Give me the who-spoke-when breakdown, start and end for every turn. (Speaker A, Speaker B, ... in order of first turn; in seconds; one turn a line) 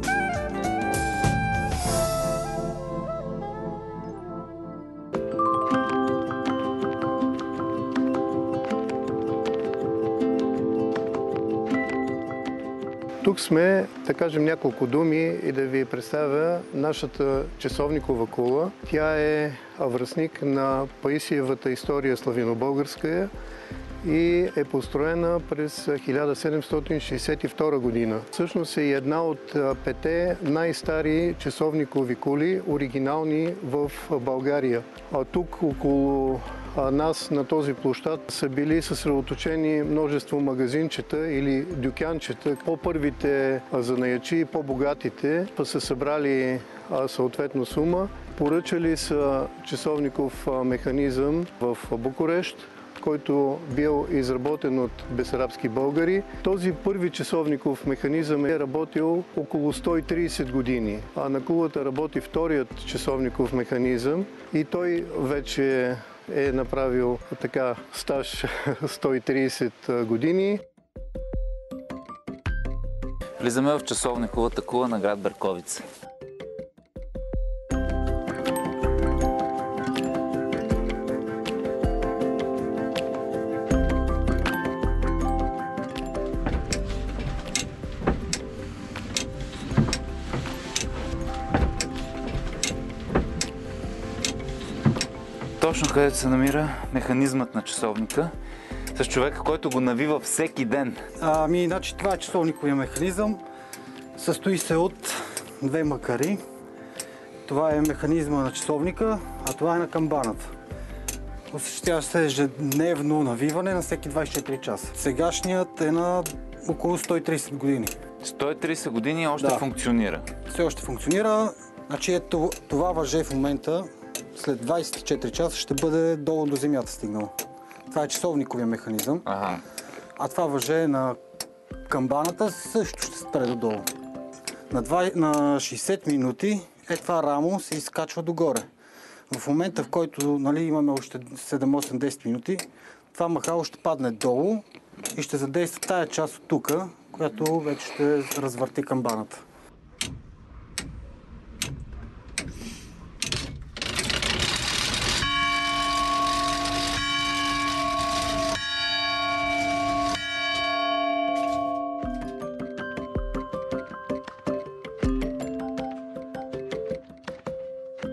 Speaker A: 13.2-23.3
Speaker A: 24.0-70.6
Speaker B: 73.4-75.8
Speaker B: 95.6-98.3
Speaker B: 98.9-101.0
Speaker C: 101.2-103.4
Speaker C: 104.2-106.4
Speaker C: 107.5-110.5
Speaker C: 111.5-118.0
Speaker B: 118.2-120.2
Speaker C: 119.4-119.6
Speaker C: 120.5-127.3
Speaker C: 127.9-129.3
Speaker B: 129.3-129.6
Speaker C: 130.2-131.2
Speaker C: 131.9-133.9
Speaker C: 134.7-138.7
Speaker C: 139.3-149.4